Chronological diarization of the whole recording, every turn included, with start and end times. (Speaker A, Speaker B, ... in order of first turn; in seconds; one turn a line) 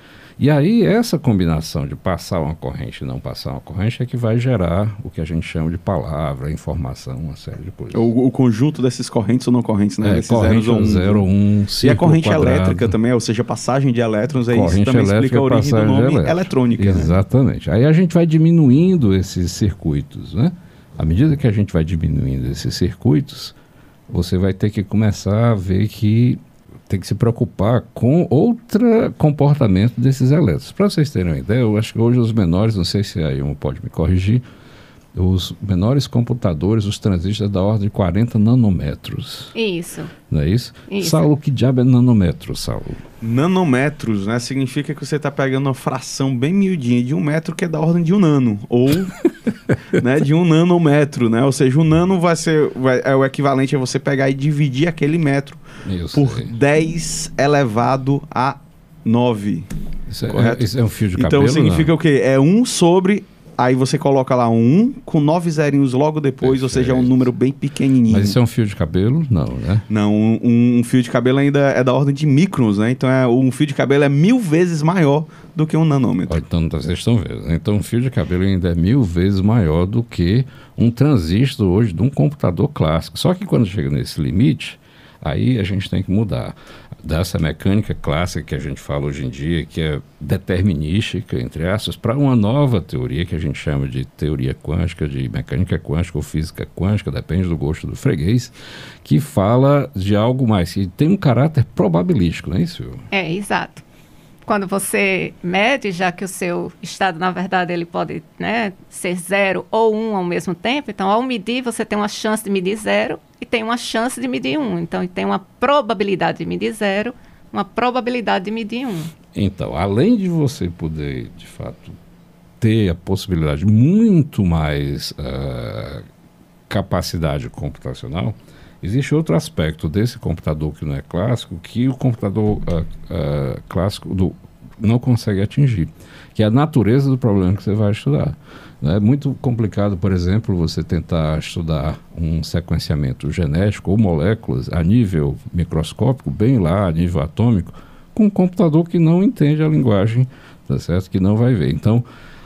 Speaker A: 0.4-8.0
Speaker B: 7.9-11.2
Speaker A: 10.0-12.9
Speaker B: 11.8-17.1
Speaker A: 14.5-23.5
Speaker A: 24.1-34.4
Speaker A: 35.1-39.5
Speaker C: 39.5-40.1
Speaker A: 40.3-43.0
Speaker C: 40.9-41.2
Speaker B: 43.2-49.2
Speaker B: 49.9-55.6
Speaker A: 55.8-56.5
Speaker B: 56.1-59.7
Speaker A: 60.1-61.9
Speaker B: 60.3-60.6
Speaker B: 61.2-68.3
Speaker A: 66.4-67.2
Speaker A: 68.1-69.8
Speaker B: 69.9-76.4
Speaker A: 76.3-98.5
Speaker A: 99.0-103.0
Speaker C: 103.1-103.8
Speaker C: 104.5-119.1
Speaker A: 119.3-122.0
Speaker A: 122.6-126.0
Speaker A: 126.7-152.0